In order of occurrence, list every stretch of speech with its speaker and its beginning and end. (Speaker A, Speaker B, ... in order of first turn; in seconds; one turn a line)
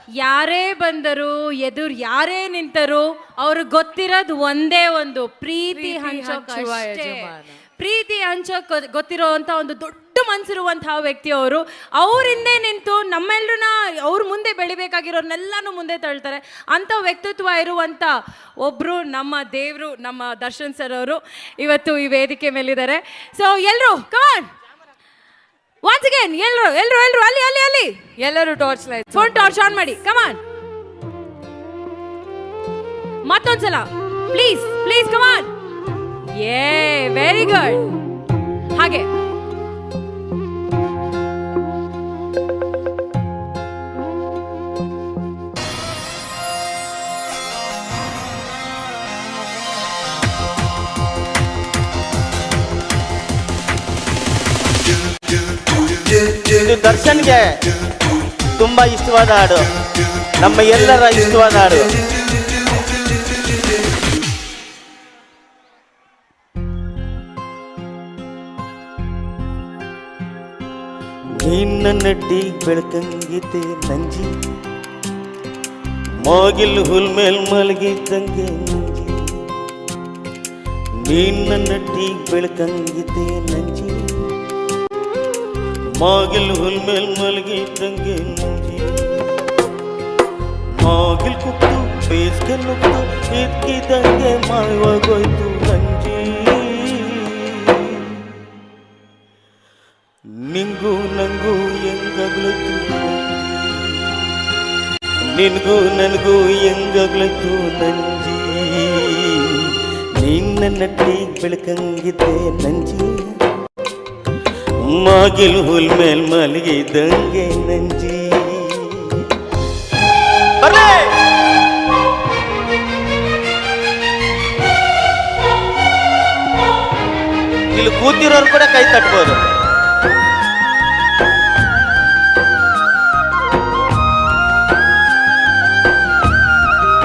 Speaker A: 0.2-24.5
Speaker B: 5.7-7.6
Speaker A: 25.8-27.9
Speaker B: 28.2-29.5
Speaker A: 29.1-30.4
Speaker A: 33.2-35.5
Speaker A: 36.3-37.9
Speaker A: 38.8-39.1
Speaker C: 56.4-57.6
Speaker C: 58.6-59.7
Speaker C: 60.4-61.9
Speaker C: 71.3-74.3
Speaker C: 76.2-79.5
Speaker C: 81.0-84.3
Speaker C: 86.0-89.3
Speaker C: 90.8-98.4
Speaker C: 100.5-104.4
Speaker C: 105.3-113.2
Speaker C: 114.8-119.3
Speaker C: 120.6-121.1
Speaker C: 127.7-129.4